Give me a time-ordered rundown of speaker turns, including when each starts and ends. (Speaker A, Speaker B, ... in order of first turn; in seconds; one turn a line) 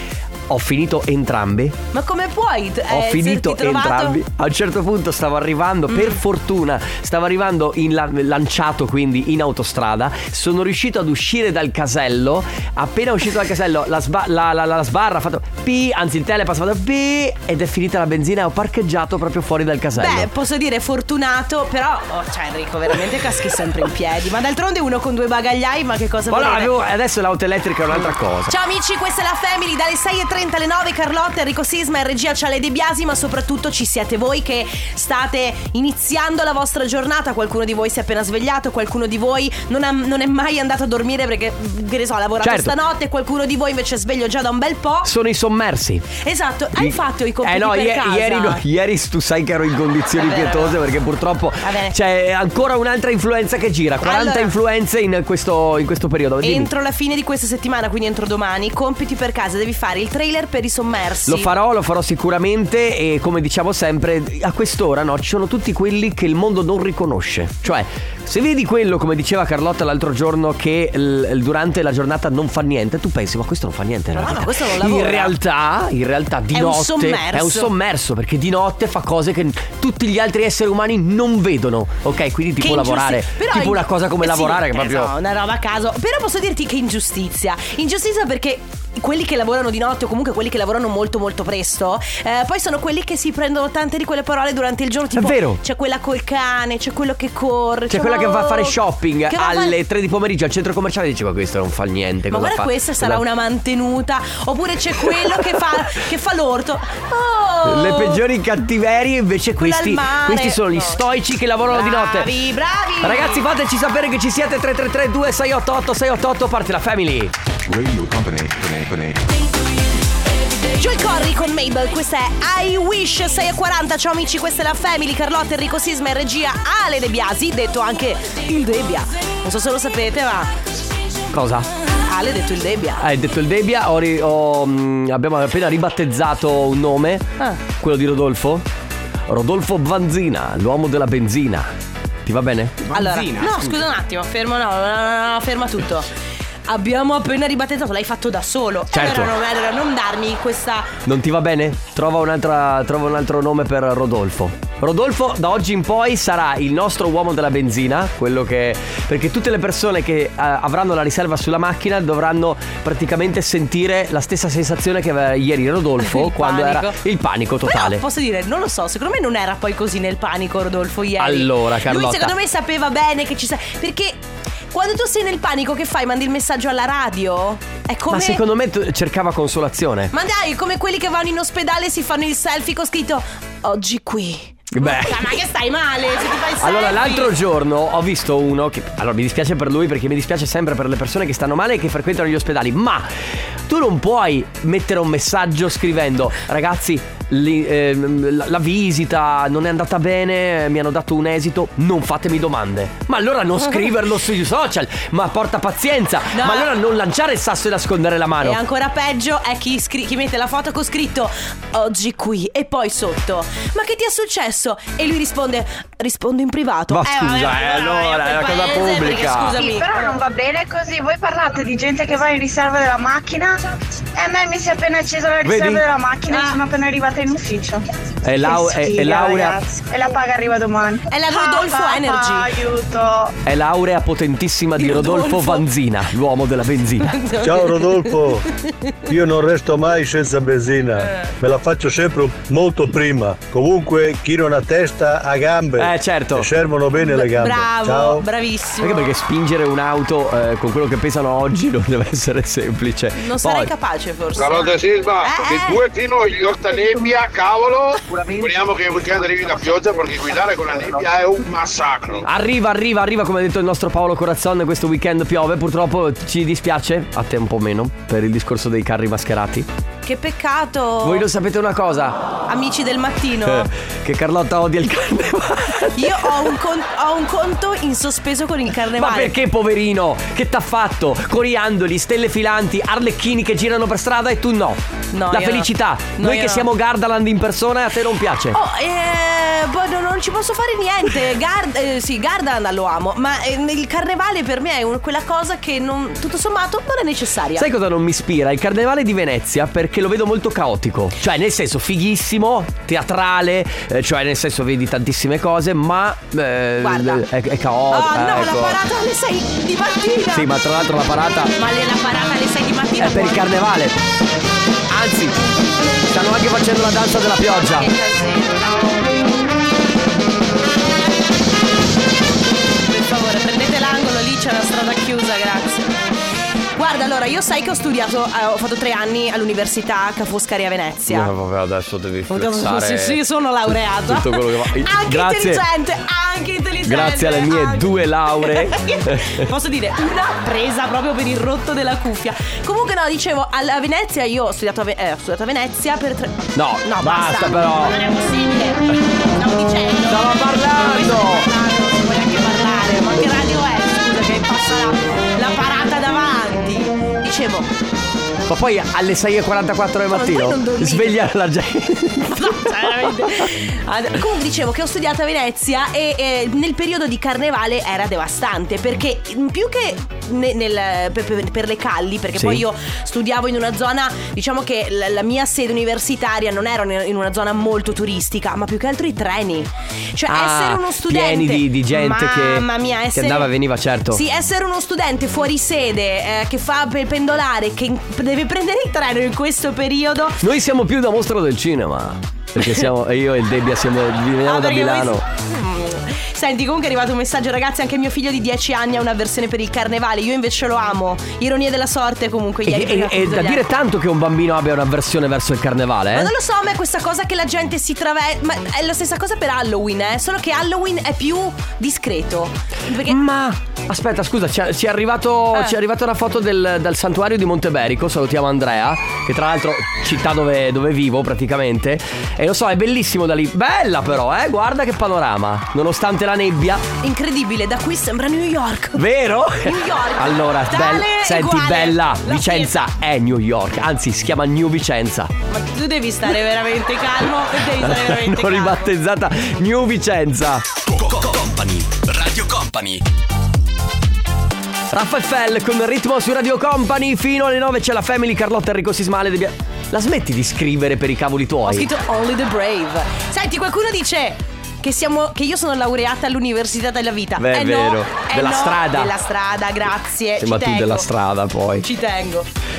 Speaker A: 0.5-1.8
Speaker B: 1.9-4.2
Speaker A: 2.9-20.3
Speaker B: 5.9-6.2
Speaker B: 20.0-26.7
Speaker A: 26.3-28.5
Speaker B: 27.9-45.1
Speaker A: 42.4-42.7
Speaker A: 45.0-46.1
Speaker B: 46.2-48.6
Speaker A: 46.8-56.7
Speaker B: 50.2-50.8
Speaker B: 51.6-51.9
Speaker B: 54.0-54.5
Speaker B: 56.4-61.5
Speaker A: 61.3-85.1
Speaker B: 74.1-75.3
Speaker B: 76.5-77.7
Speaker B: 82.6-98.8
Speaker A: 95.2-95.6
Speaker A: 97.9-103.2
Speaker B: 99.3-99.7
Speaker B: 102.3-108.2
Speaker A: 105.0-105.4
Speaker A: 107.7-112.3
Speaker B: 109.6-111.0
Speaker B: 111.7-113.4
Speaker A: 113.0-117.3
Speaker C: 117.7-119.2
Speaker B: 120.8-130.5
Speaker A: 131.3-131.7
Speaker B: 132.0-133.1
Speaker A: 133.0-138.7
Speaker A: 139.3-141.7
Speaker A: 142.2-143.7
Speaker B: 142.9-146.1
Speaker B: 146.7-150.9
Speaker A: 148.9-149.3
Speaker A: 151.0-168.0
Speaker B: 166.0-167.0
Speaker B: 167.7-178.4
Speaker A: 171.2-172.3
Speaker A: 178.1-180.1
Speaker B: 180.1-187.3
Speaker A: 184.7-185.3
Speaker A: 186.6-193.1
Speaker A: 193.7-208.6
Speaker B: 206.3-206.7
Speaker B: 208.4-220.2
Speaker A: 216.9-219.6
Speaker D: 219.5-223.6
Speaker D: 224.2-227.8
Speaker A: 225.4-225.8
Speaker B: 226.3-226.6
Speaker A: 228.2-229.6
Speaker D: 228.3-233.3
Speaker B: 231.1-232.6
Speaker A: 233.4-237.1
Speaker B: 234.8-235.6
Speaker B: 237.0-238.2
Speaker E: 237.4-238.4
Speaker E: 239.1-248.2
Speaker B: 241.0-241.3
Speaker A: 245.8-246.5
Speaker B: 247.0-249.1
Speaker A: 248.8-253.7
Speaker B: 253.2-255.8
Speaker F: 254.3-262.2
Speaker A: 262.2-269.7
Speaker B: 270.0-271.2
Speaker A: 271.0-272.2
Speaker B: 272.5-273.7
Speaker A: 273.4-276.3
Speaker B: 276.0-279.3
Speaker A: 279.0-284.8
Speaker B: 285.1-286.6
Speaker A: 285.3-288.6
Speaker B: 288.5-297.7
Speaker A: 297.6-308.8
Speaker B: 306.8-307.2
Speaker B: 307.9-310.5
Speaker A: 310.3-311.5
Speaker B: 311.6-313.4
Speaker A: 313.0-314.0
Speaker A: 314.9-315.4
Speaker A: 316.1-317.9
Speaker B: 317.4-319.2
Speaker B: 322.9-326.0
Speaker B: 326.8-331.3
Speaker A: 331.1-335.6
Speaker B: 332.3-357.7
Speaker A: 336.8-339.4
Speaker A: 346.5-347.9
Speaker A: 350.1-351.5
Speaker A: 358.5-363.1
Speaker B: 360.1-361.2
Speaker B: 362.3-383.5
Speaker A: 372.4-372.6
Speaker A: 380.3-384.2
Speaker B: 384.1-390.4
Speaker A: 390.4-395.2
Speaker B: 394.4-403.7
Speaker A: 402.6-406.3
Speaker B: 406.1-413.2
Speaker A: 413.1-426.8
Speaker B: 427.0-429.0
Speaker A: 428.9-435.3
Speaker B: 429.6-432.9
Speaker B: 435.5-438.9
Speaker A: 437.8-440.6
Speaker C: 441.0-443.0
Speaker A: 444.9-451.9
Speaker B: 451.7-461.1
Speaker A: 457.4-459.1
Speaker A: 460.4-461.9
Speaker B: 461.8-462.5